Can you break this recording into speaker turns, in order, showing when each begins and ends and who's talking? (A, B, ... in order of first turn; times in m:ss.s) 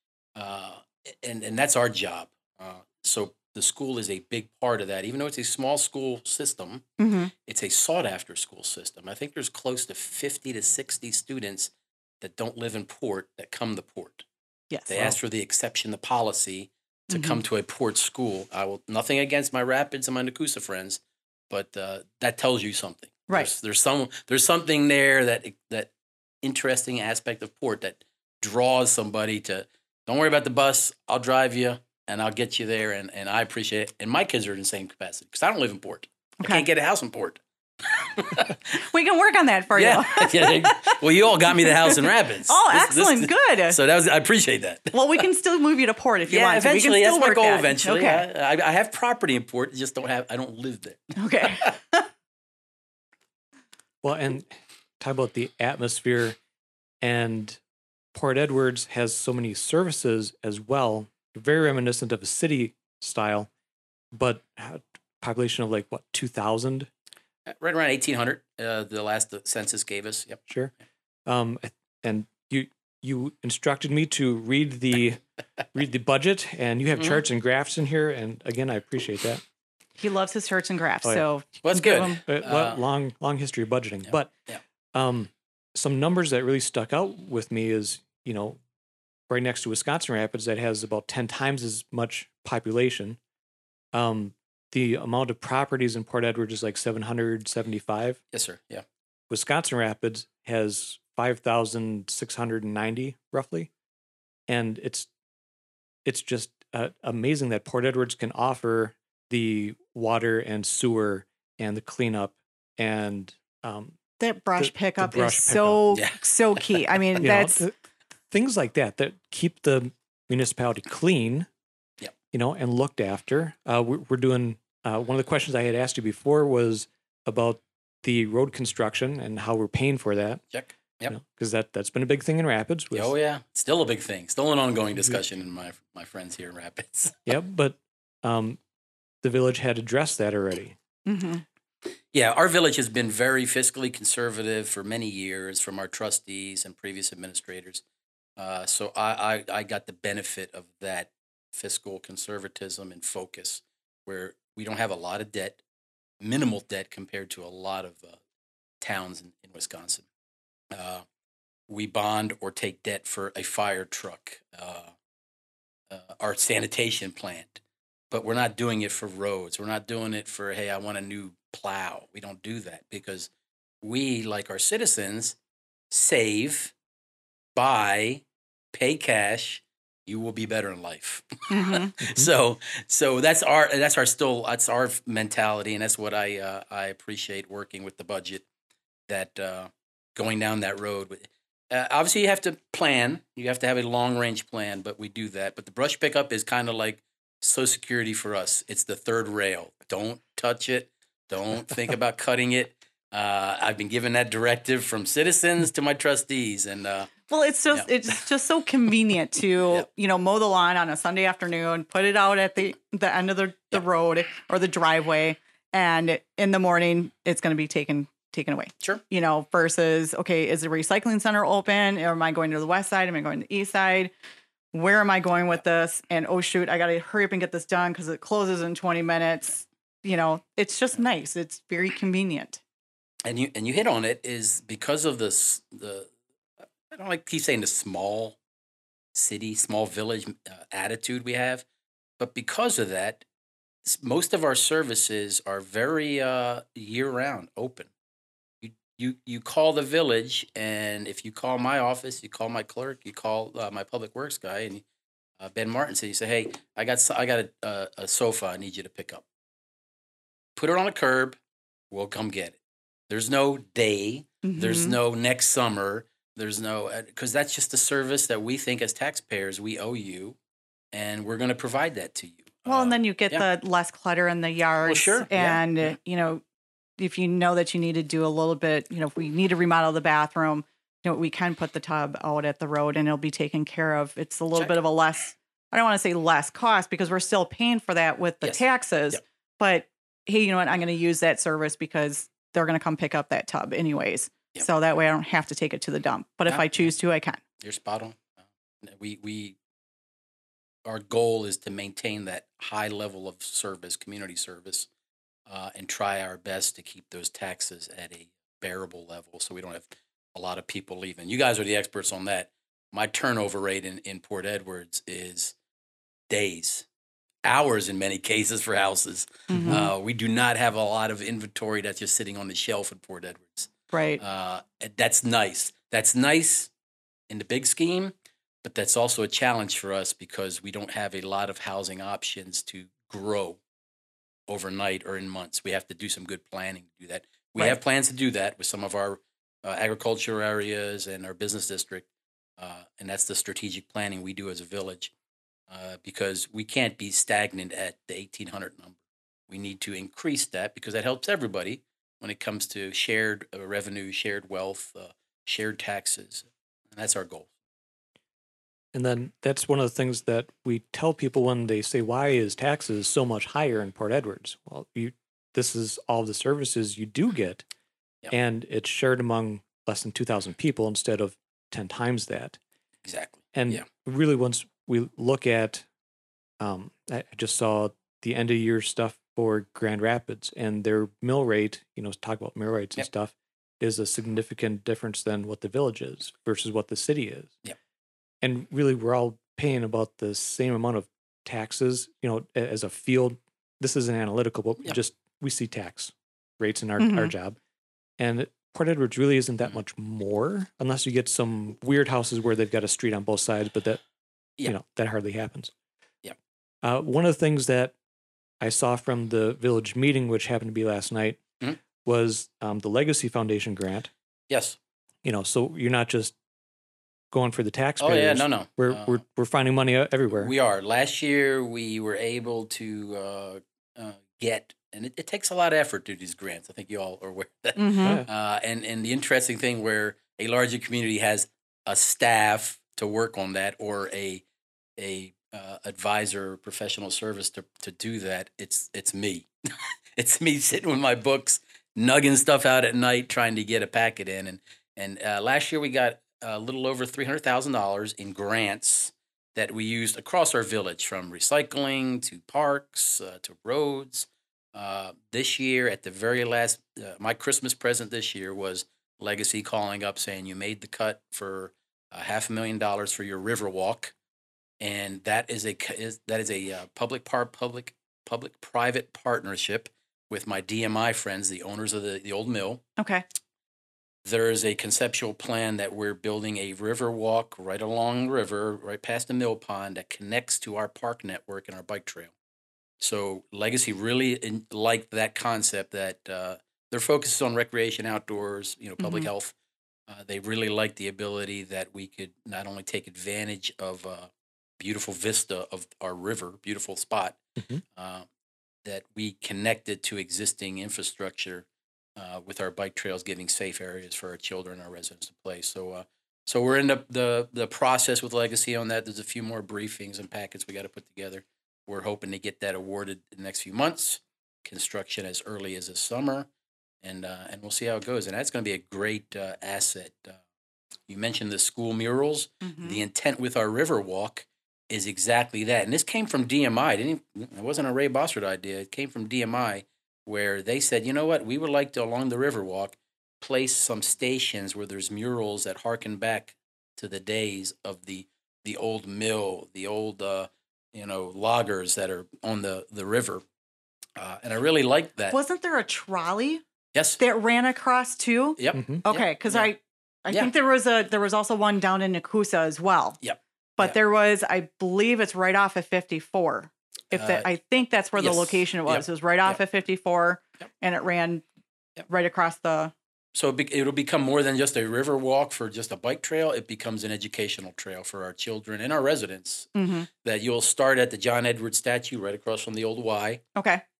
0:00.4-0:06.9 A
0:07.0-0:07.3 B
0:07.4-0:14.3 A
0:14.7-0:15.2 B
0:14.9-0:25.9 A
0:17.1-0:17.4 B
0:26.4-0:38.8 A
0:38.8-0:41.0 B
0:39.8-0:45.0 A
0:41.6-0:42.0 B
0:42.5-0:43.8 B
0:44.9-0:48.2 B
0:46.3-0:51.7 A
0:51.2-0:52.1 B
0:54.0-0:56.4 C
0:57.0-0:57.6 C
0:58.1-1:03.5 C
1:04.1-1:06.9 C
1:07.5-1:10.4 A
1:11.3-1:15.2 C
1:15.7-1:19.4 C
1:17.0-1:17.2 A
1:20.0-1:22.2 B
1:21.6-1:22.8 A
1:22.3-1:24.3 C
1:24.1-1:24.6 A
1:24.9-1:28.6 C
1:29.3-1:33.2 C
1:33.9-1:38.2 C
1:38.3-1:38.8 A
1:39.3-1:43.7 C
1:44.5-1:45.1 C
1:46.0-1:54.0 C
1:54.2-1:57.6 B
1:54.6-1:55.9 C
1:55.9-1:56.2 A
1:57.2-1:57.7 C
1:58.3-2:01.5 C
2:02.3-2:10.4 C
2:10.5-2:11.2 A
2:11.1-2:13.1 C
2:13.0-2:17.2 A
2:17.3-2:18.6 C
2:19.2-2:20.8 C
2:21.1-2:21.4 B
2:22.1-2:27.8 A
2:28.4-2:35.6 A
2:36.2-2:38.2 A
2:38.8-2:40.1 A
2:40.7-2:41.0 A
2:41.7-2:44.9 A
2:45.9-2:53.3 A
2:53.8-2:55.4 A
2:55.9-2:56.7 A
2:57.6-3:08.4 A
3:01.5-3:02.0 B
3:09.1-3:27.1 A
3:27.3-3:44.1 B
3:44.7-3:52.6 B
3:53.2-3:56.1 A
3:56.6-3:58.4 A
3:59.1-4:01.6 A
4:02.2-4:03.2 A
4:03.8-4:07.9 A
4:08.6-4:14.8 A
4:15.4-4:19.2 A
4:20.6-4:21.4 A
4:21.9-4:22.6 A
4:23.1-4:30.4 A
4:24.4-4:25.0 B
4:30.9-4:33.4 A
4:32.7-4:36.4 B
4:34.8-4:35.7 A
4:37.0-4:57.4 B
4:56.5-4:56.9 A
4:57.6-4:59.6 A
5:00.8-5:04.9 A
5:05.5-5:15.6 A
5:16.3-5:16.9 A
5:17.4-5:26.7 A
5:19.5-5:19.9 B
5:23.9-5:24.2 B
5:27.3-5:33.6 A
5:34.5-5:42.1 A
5:42.6-5:45.1 A
5:45.7-5:49.0 A
5:49.5-5:57.5 A
5:58.9-6:07.6 C
6:08.3-6:12.6 C
6:13.0-6:13.9 A
6:13.5-6:15.9 C
6:16.6-6:27.6 C
6:28.4-6:37.6 C
6:37.0-6:37.3 B
6:38.2-6:44.0 C
6:44.6-6:45.7 C
6:46.8-6:48.0 C
6:48.6-6:51.4 C
6:52.0-6:54.1 C
6:54.5-6:54.8 A
6:55.2-6:56.3 C
6:57.3-7:00.5 C
6:58.0-6:59.2 A
7:00.3-7:14.4 A
7:07.8-7:08.2 B
7:15.0-7:19.5 A
7:20.2-7:44.1 A
7:44.8-7:52.8 A
7:53.0-7:53.2 B
7:54.2-8:02.3 A
8:03.0-8:09.5 A
8:09.0-8:09.3 B
8:10.1-8:17.4 A
8:18.0-8:18.3 A
8:18.8-8:36.5 A
8:37.0-8:40.4 A
8:41.1-9:03.4 A
8:42.6-8:43.0 B
9:04.2-9:05.4 A
9:05.3-9:06.6 B
9:07.2-9:13.2 B
9:08.6-9:09.7 A
9:08.7-9:09.0 C
9:13.2-9:14.0 A
9:13.8-9:21.4 B
9:17.1-9:17.5 A
9:18.2-9:19.6 A
9:22.1-9:22.9 B
9:23.4-9:33.4 A
9:29.8-9:30.1 B
9:33.6-9:33.8 B